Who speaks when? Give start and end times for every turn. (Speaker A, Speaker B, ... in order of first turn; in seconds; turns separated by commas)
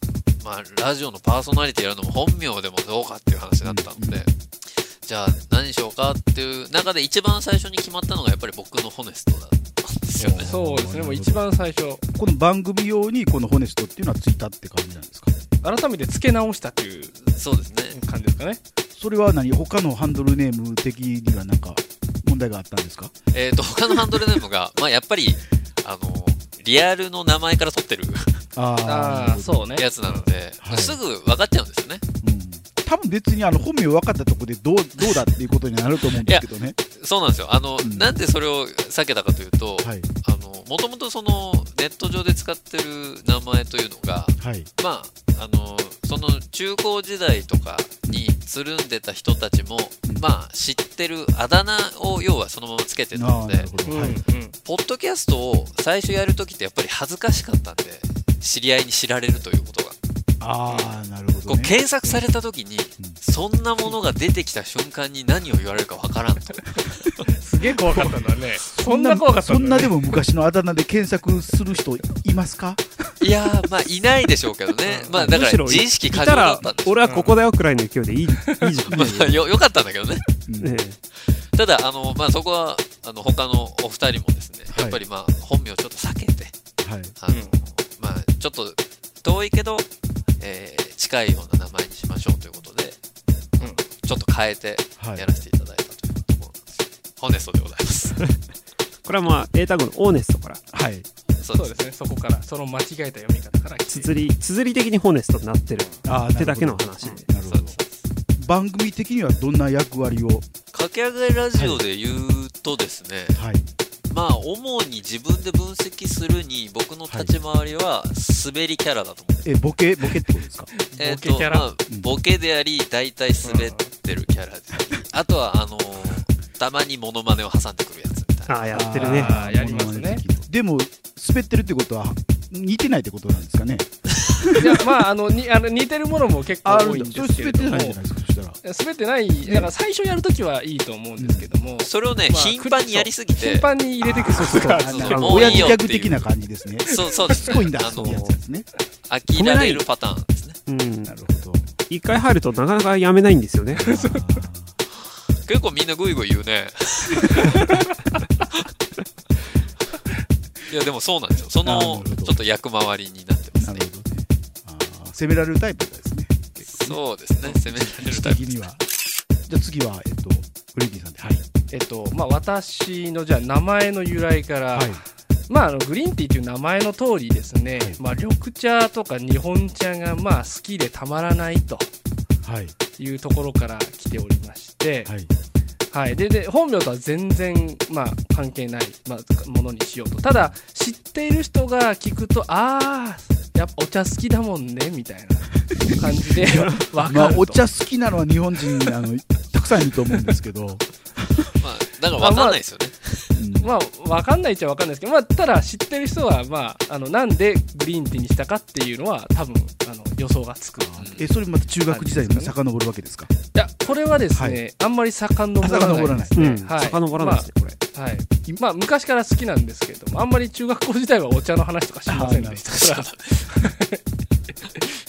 Speaker A: 0.4-10.5, Speaker B: 3.6-4.2, Speaker B: 10.2-11.4, Speaker C: 10.3-12.0, Speaker B: 12.2-15.3, Speaker C: 15.6-17.2, Speaker A: 17.3-18.0, Speaker C: 17.9-18.6, Speaker B: 18.9-23.1, Speaker A: 23.3-28.4, Speaker B: 28.6-29.7, Speaker C: 28.9-30.3, Speaker A: 29.8-32.0, Speaker B: 30.6-31.0, Speaker B: 32.2-36.8, Speaker A: 36.2-54.0, Speaker B: 37.8-38.1, Speaker B: 39.8-40.1, Speaker B: 44.4-44.7, Speaker B: 53.1-54.2, Speaker C: 53.8-54.6, Speaker A: 54.6-60.0, Speaker B: 60.4-61.7, Speaker C: 60.7-60.9, Speaker A: 61.5-67.2, Speaker C: 67.4-70.1, Speaker B: 68.7-72.9, Speaker A: 73.2-77.0, Speaker C: 74.8-75.2, Speaker D: 75.2-79.4, Speaker C: 77.0-77.4, Speaker C: 78.3-78.7, Speaker B: 78.9-79.4, Speaker A: 78.9-80.2, Speaker B: 80.5-80.7, Speaker D: 80.6-81.0, Speaker A: 81.2-86.5, Speaker B: 84.7-85.0, Speaker B: 86.8-87.2, Speaker A: 87.2-89.9, Speaker C: 87.3-87.6, Speaker A: 90.4-93.0, Speaker A: 93.6-98.2, Speaker B: 95.0-95.2, Speaker D: 99.0-100.6, Speaker B: 100.7-101.0, Speaker A: 101.4-101.7, Speaker C: 101.5-104.2, Speaker D: 103.9-107.3, Speaker B: 106.0-107.8, Speaker A: 107.5-108.0, Speaker B: 108.4-110.5, Speaker A: 110.7-113.4, Speaker B: 111.5-111.8, Speaker B: 113.3-113.7, Speaker A: 114.1-119.5, Speaker B: 117.1-117.4, Speaker B: 119.4-120.7, Speaker C: 120.7-121.8, Speaker A: 121.0-128.8, Speaker C: 123.4-123.9, Speaker D: 128.5-129.3, Speaker B: 128.7-134.6, Speaker C: 128.9-130.2, Speaker C: 134.6-138.0, Speaker B: 136.6-138.6, Speaker C: 138.6-145.7, Speaker B: 139.4-139.7, Speaker B: 141.2-141.5, Speaker A: 141.8-143.7, Speaker B: 144.0-148.7, Speaker D: 144.3-145.8, Speaker A: 144.7-146.3, Speaker C: 146.9-147.6, Speaker A: 146.9-148.2, Speaker D: 147.9-148.3, Speaker A: 149.1-150.6, Speaker D: 149.3-149.8, Speaker D: 150.7-151.2, Speaker B: 151.0-151.7, Speaker D: 151.9-153.8, Speaker B: 153.7-154.7, Speaker C: 153.8-154.2, Speaker A: 155.4-157.6, Speaker A: 160.7-163.8, Speaker B: 161.6-162.4, Speaker B: 163.5-168.8, Speaker A: 166.7-168.5, Speaker B: 169.5-171.5, Speaker C: 171.7-181.9, Speaker B: 174.7-175.0, Speaker B: 182.4-182.7, Speaker C: 183.0-185.1, Speaker C: 185.9-197.6, Speaker B: 196.4-201.5, Speaker A: 201.6-203.4, Speaker C: 202.2-202.6, Speaker B: 203.3-203.7, Speaker C: 203.6-211.1, Speaker B: 210.8-213.3, Speaker A: 211.0-211.2, Speaker C: 211.8-212.5, Speaker C: 213.5-224.0, Speaker B: 214.3-214.6, Speaker B: 215.6-216.5, Speaker D: 216.3-217.8, Speaker B: 222.1-222.7, Speaker A: 222.7-223.2, Speaker C: 224.6-224.9